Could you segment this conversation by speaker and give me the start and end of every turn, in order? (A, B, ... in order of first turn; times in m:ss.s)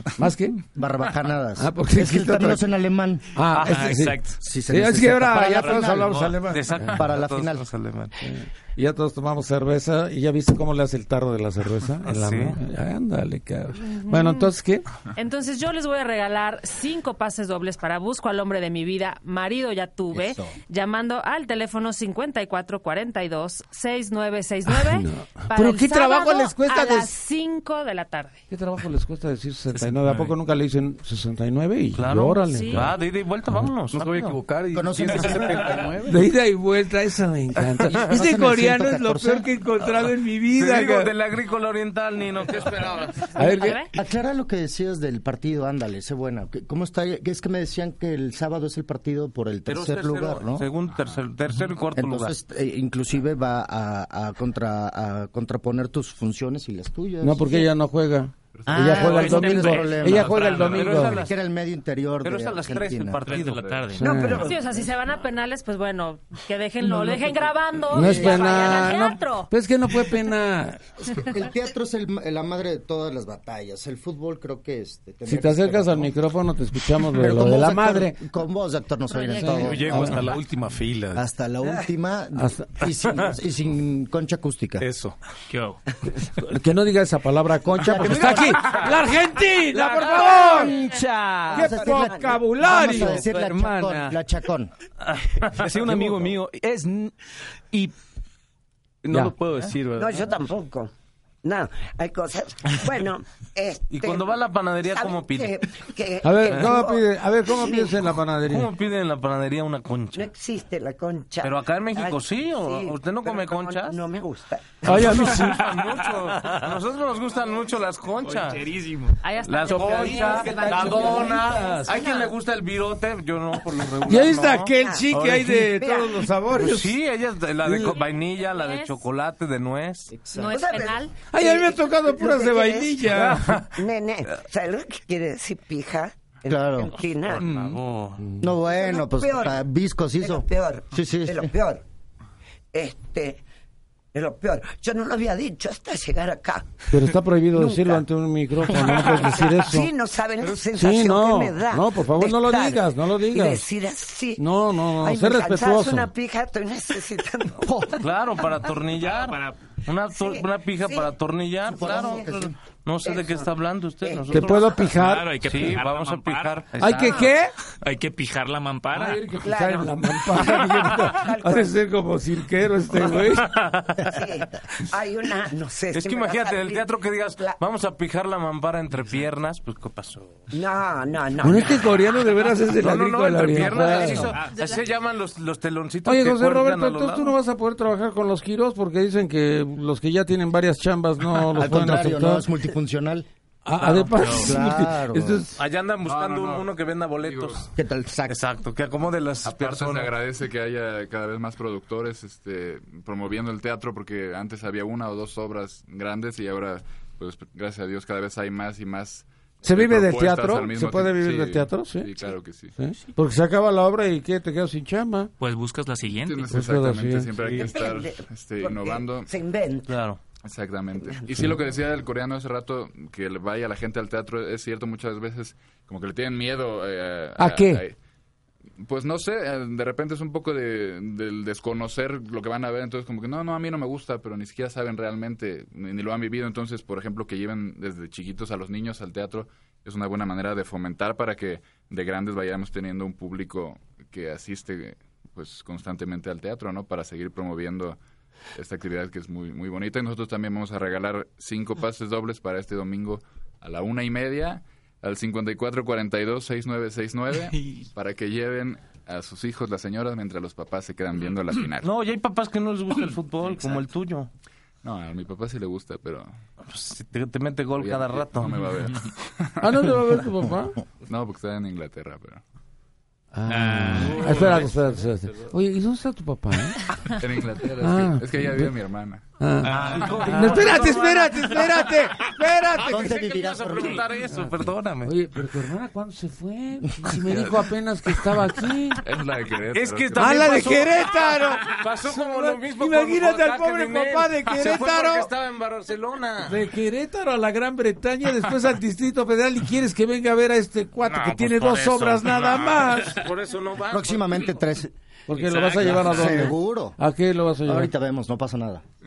0:00.2-0:00.6 A
0:00.7-0:03.2 B
0:01.6-0:02.6 A
0:03.3-0:07.0 A
0:03.5-0:04.3 C
0:03.6-0:04.0 D
0:04.4-0:06.4 B
0:06.3-0:08.3 D
0:06.9-0:07.7 B
0:08.2-0:14.9 A
0:12.0-0:12.6 D
0:13.8-0:14.5 E
0:15.1-0:28.4 E
0:20.1-0:20.6 B
0:24.7-0:27.1 A
0:28.5-0:32.9 A
0:29.7-0:30.3 D
0:31.9-0:34.0 D
0:32.5-0:33.0 E
0:33.9-0:36.2 F
0:34.7-0:35.9 B
0:36.0-0:41.1 A
0:38.1-0:39.5 B
0:40.5-0:43.3 D
0:43.3-0:43.8 A
0:43.4-0:43.9 E
0:43.9-0:50.7 B
0:49.7-0:52.3 D
0:50.9-0:51.2 G
0:52.0-0:57.6 B
0:57.2-1:01.3 A
0:58.5-0:59.1 G
0:58.7-0:59.6 C
0:58.8-1:01.3 D
0:58.9-1:03.2 B
1:00.4-1:00.7 C
1:02.2-1:03.7 D
1:03.3-1:04.1 C
1:03.6-1:03.8 G
1:03.9-1:04.6 A
1:04.0-1:04.8 H
1:04.4-1:09.5 E
1:06.9-1:07.2 A
1:07.9-1:10.9 A
1:07.9-1:08.8 B
1:11.0-1:16.1 B
1:15.2-1:18.2 A
1:17.1-1:20.3 B
1:19.1-1:19.9 E
1:19.4-1:21.2 F
1:21.1-1:24.8 B
1:22.4-1:22.7 A
1:24.8-1:25.1 F
1:25.5-1:25.8 C
1:26.3-1:33.3 A
1:27.8-1:28.8 B
1:27.8-1:29.0 F
1:29.7-1:31.5 F
1:30.2-1:30.7 H
1:30.4-1:34.7 B
1:31.5-1:32.4 H
1:32.6-1:34.1 F
1:35.4-1:37.1 F
1:39.0-1:40.3 F
1:40.0-1:40.9 H
1:41.4-1:48.0 H
1:43.9-1:45.6 D
1:46.2-1:48.7 A
1:48.4-1:50.3 D
1:50.1-1:55.3 H
1:51.4-1:54.0 D
1:54.8-1:55.7 A
1:54.9-1:58.7 D
1:55.4-1:56.6 C
1:58.2-2:00.0 C
1:59.2-2:02.1 E
1:59.4-2:05.7 D
2:00.8-2:02.0 H
2:04.0-2:07.0 A
2:04.8-2:05.0 H
2:05.8-2:06.3 H
2:06.5-2:10.1 D
2:07.6-2:07.9 A
2:07.8-2:09.0 E
2:10.1-2:10.6 B
2:10.3-2:11.2 E
2:10.5-2:17.5 H
2:11.2-2:13.6 A
2:13.1-2:13.7 D
2:16.5-2:17.0 B
2:17.3-2:18.2 D
2:17.4-2:17.8 F
2:18.2-2:18.5 A
2:18.4-2:21.5 B
2:18.6-2:19.6 H
2:20.2-2:21.8 H
2:22.7-2:23.4 H
2:24.1-2:28.0 H
2:26.9-2:29.9 A
2:28.7-2:38.0 H
2:30.7-2:33.6 A
2:34.4-2:36.1 A
2:37.6-2:38.0 A
2:38.0-2:44.8 D
2:39.0-2:39.6 C
2:40.1-2:41.1 H
2:41.7-2:42.6 B
2:41.8-2:42.4 H
2:43.0-2:43.5 H
2:44.0-2:44.9 H
2:44.3-2:45.3 A
2:44.9-2:46.6 C
2:45.4-2:47.3 D
2:46.8-2:47.5 A
2:47.8-2:49.2 C
2:48.9-2:53.5 A
2:49.4-2:51.8 H
2:53.4-2:54.0 D
2:54.1-2:57.6 H
2:55.9-3:00.5 D
3:00.5-3:01.9 H
3:01.4-3:04.4 A
3:02.8-3:07.3 D
3:04.4-3:04.8 E
3:06.0-3:12.4 A
3:11.5-3:13.3 B
3:13.6-3:15.6 A
3:13.8-3:14.5 D
3:14.2-3:15.5 B
3:15.6-3:17.7 D
3:16.0-3:17.7 G
3:17.7-3:18.4 B
3:18.3-3:20.1 D
3:19.4-3:32.7 G
3:29.6-3:35.3 A
3:35.4-3:36.5 C
3:36.2-3:39.3 G
3:36.5-3:37.4 A
3:37.5-3:40.0 H
3:39.9-3:40.2 D
3:40.4-3:48.0 G
3:41.0-3:41.5 H
3:47.4-3:47.8 A
3:48.8-4:08.0 G
4:08.5-4:21.9 G
4:21.8-4:24.3 D
4:24.8-4:26.3 G
4:26.7-4:28.7 D
4:27.8-4:30.2 G
4:29.6-4:30.8 A
4:31.1-4:32.4 G
4:33.3-4:37.0 A
4:33.5-4:34.6 C
4:34.0-4:34.7 D
4:37.1-4:40.0 G
4:37.6-4:38.8 A
4:39.4-4:43.1 A
4:39.6-4:42.2 D
4:42.8-4:45.1 D
4:42.8-4:44.2 B
4:45.0-4:49.0 A
4:49.0-4:51.0 G
4:49.7-4:56.7 D
4:50.2-4:55.3 A
4:56.5-5:03.2 A
5:01.0-5:04.5 D
5:03.9-5:04.9 B
5:05.3-5:07.9 A
5:05.5-5:05.9 C
5:05.5-5:06.4 D
5:06.0-5:07.0 B
5:07.6-5:08.8 B